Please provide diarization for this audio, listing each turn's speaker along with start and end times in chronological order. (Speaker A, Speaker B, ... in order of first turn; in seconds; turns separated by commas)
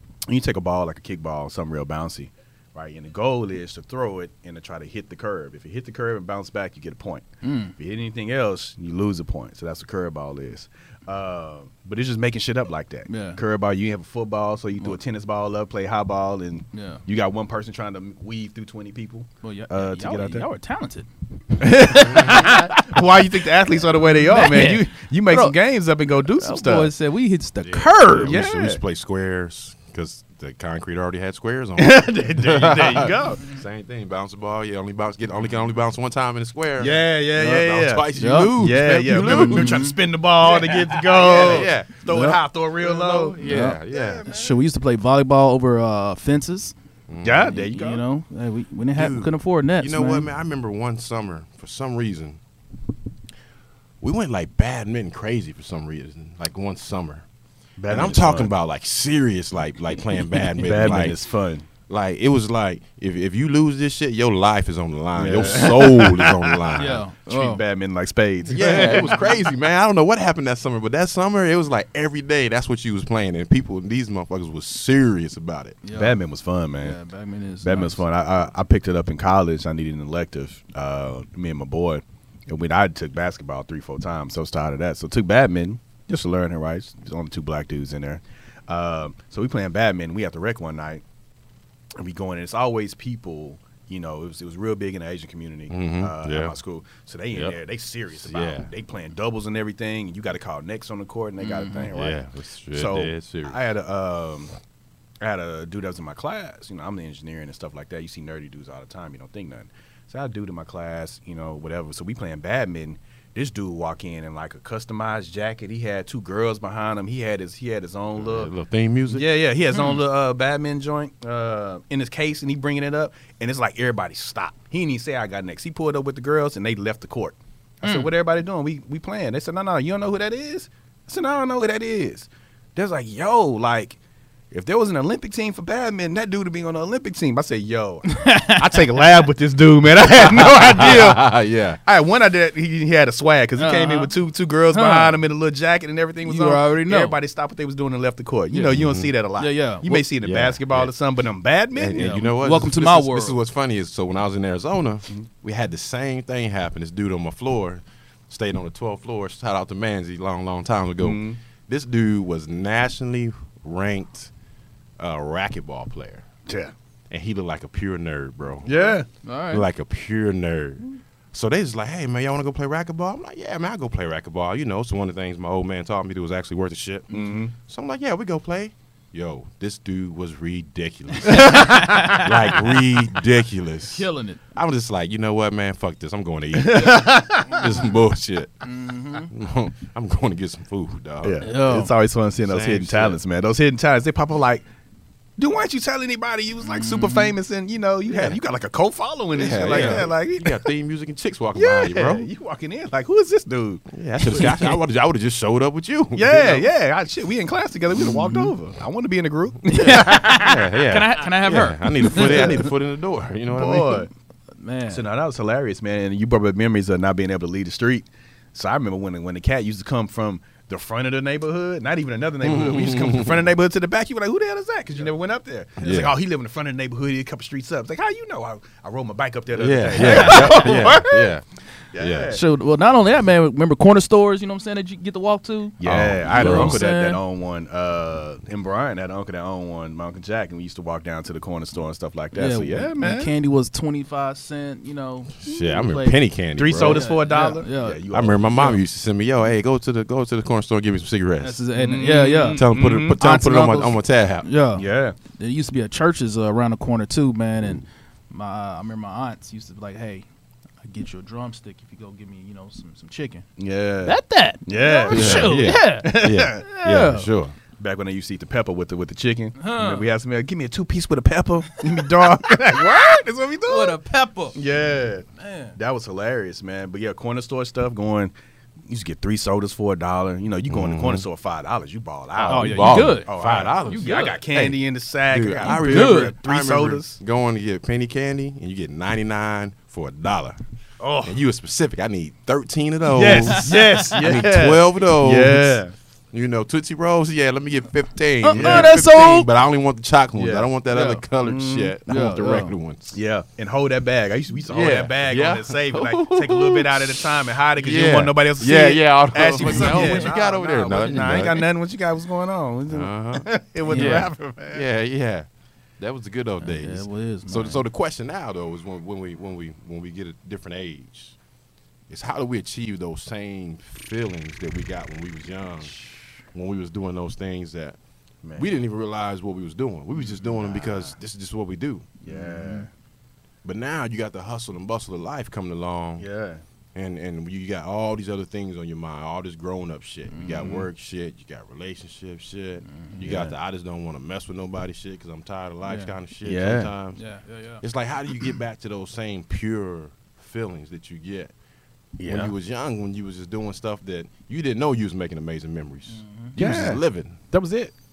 Speaker A: 0.3-7.3, Speaker B: 7.4-7.7, Speaker A: 7.8-20.5, Speaker B: 13.1-13.4, Speaker B: 16.7-17.0, Speaker B: 19.4-21.1, Speaker A: 21.6-26.9, Speaker B: 21.6-22.9, Speaker C: 21.9-22.6, Speaker B: 24.2-25.6, Speaker B: 26.4-28.3, Speaker C: 27.6-39.9, Speaker A: 28.1-28.8, Speaker A: 31.8-33.5, Speaker A: 36.8-44.6, Speaker B: 38.1-38.6, Speaker B: 39.1-40.0, Speaker C: 40.5-42.1, Speaker B: 42.1-42.4, Speaker C: 42.8-44.3, Speaker B: 43.4-46.7, Speaker C: 47.1-47.5, Speaker A: 47.2-48.0, Speaker B: 47.4-50.3, Speaker C: 49.0-52.4, Speaker C: 54.0-57.3, Speaker A: 57.8-58.5, Speaker C: 57.9-61.2, Speaker A: 60.5-61.7, Speaker C: 61.9-67.0, Speaker A: 65.2-69.4, Speaker B: 66.8-67.6, Speaker C: 68.5-75.8, Speaker B: 68.7-69.1, Speaker B: 75.8-76.2, Speaker A: 75.9-77.0, Speaker B: 76.8-78.0, Speaker A: 77.6-91.0, Speaker A: 92.0-104.5, Speaker C: 95.7-96.5, Speaker C: 97.3-97.6, Speaker C: 98.2-98.7, Speaker B: 101.4-101.9, Speaker C: 101.9-103.6, Speaker A: 105.2-118.5, Speaker C: 118.2-119.3, Speaker A: 119.1-134.0, Speaker B: 119.7-120.0, Speaker B: 127.8-128.1, Speaker A: 134.5-152.2, Speaker B: 138.1-138.8, Speaker C: 140.0-141.8, Speaker B: 143.6-144.1, Speaker B: 144.7-145.2, Speaker B: 146.2-147.2, Speaker C: 148.5-149.1, Speaker B: 149.4-150.0, Speaker C: 150.2-150.9, Speaker C: 151.7-164.3, Speaker B: 151.9-153.4, Speaker A: 161.0-161.4, Speaker C: 165.0-166.3, Speaker A: 166.5-166.7, Speaker C: 167.1-168.8, Speaker A: 168.7-169.1, Speaker B: 169.2-169.7, Speaker C: 169.5-191.5, Speaker A: 177.1-177.5, Speaker B: 181.3-182.6, Speaker A: 181.3-181.6, Speaker B: 183.9-184.4, Speaker A: 186.5-187.7, Speaker B: 188.6-189.3, Speaker A: 191.2-194.6, Speaker B: 191.4-191.9, Speaker C: 192.4-193.2, Speaker A: 195.4-200.7, Speaker B: 196.6-197.3, Speaker C: 198.1-198.4, Speaker C: 199.3-202.3, Speaker A: 201.5-204.8, Speaker C: 203.9-206.7, Speaker A: 206.2-210.5, Speaker B: 208.1-208.5, Speaker B: 209.7-212.7, Speaker C: 209.7-214.1, Speaker A: 212.1-212.7, Speaker A: 213.5-214.1, Speaker B: 214.6-215.0, Speaker A: 214.9-231.3, Speaker C: 222.4-223.4, Speaker C: 225.8-226.2, Speaker C: 229.5-232.4, Speaker B: 230.0-230.9, Speaker A: 231.9-232.4, Speaker B: 232.3-237.2, Speaker A: 235.8-243.3, Speaker C: 235.8-236.8, Speaker B: 242.3-246.2, Speaker C: 245.4-247.1, Speaker A: 246.6-248.8, Speaker B: 246.7-248.0, Speaker C: 248.1-251.6, Speaker B: 251.4-260.3, Speaker A: 251.8-253.2, Speaker C: 252.5-254.5, Speaker A: 254.8-255.2, Speaker B: 260.8-263.4, Speaker A: 263.6-266.6, Speaker B: 264.0-267.3, Speaker C: 265.1-267.6, Speaker A: 267.8-274.0, Speaker B: 269.6-270.1, Speaker B: 271.7-272.1, Speaker B: 273.7-274.6, Speaker A: 274.6-278.3, Speaker B: 275.4-275.8, Speaker A: 278.9-287.2, Speaker C: 280.7-281.2, Speaker C: 282.4-284.8, Speaker B: 282.5-283.3, Speaker B: 283.9-284.4, Speaker C: 285.3-290.6, Speaker B: 285.6-286.3, Speaker A: 291.0-291.4, Speaker C: 291.2-295.8, Speaker A: 293.1-295.9, Speaker B: 293.3-294.2, Speaker C: 296.3-303.1, Speaker B: 298.4-299.5, Speaker A: 298.5-298.9, Speaker A: 300.4-300.7, Speaker B: 300.9-301.2, Speaker A: 301.4-301.9, Speaker B: 302.1-302.8, Speaker A: 303.1-314.9, Speaker C: 304.7-311.6, Speaker B: 309.6-310.3, Speaker C: 312.9-315.5, Speaker B: 313.9-314.3, Speaker C: 316.0-321.4, Speaker B: 316.6-317.8, Speaker C: 322.1-325.9, Speaker C: 326.5-328.0, Speaker A: 328.4-328.7, Speaker C: 328.6-332.2, Speaker A: 330.7-331.1, Speaker A: 332.2-332.9, Speaker B: 332.3-332.9, Speaker C: 333.6-336.2, Speaker A: 336.2-336.6, Speaker C: 336.9-347.2, Speaker B: 340.3-340.8, Speaker A: 340.6-340.8, Speaker B: 342.9-343.2, Speaker A: 343.2-343.5, Speaker B: 345.8-346.1, Speaker A: 346.4-346.9, Speaker B: 347.2-347.8, Speaker C: 347.8-351.5, Speaker A: 352.2-352.5, Speaker C: 352.2-357.4, Speaker B: 356.1-356.6, Speaker A: 356.6-357.9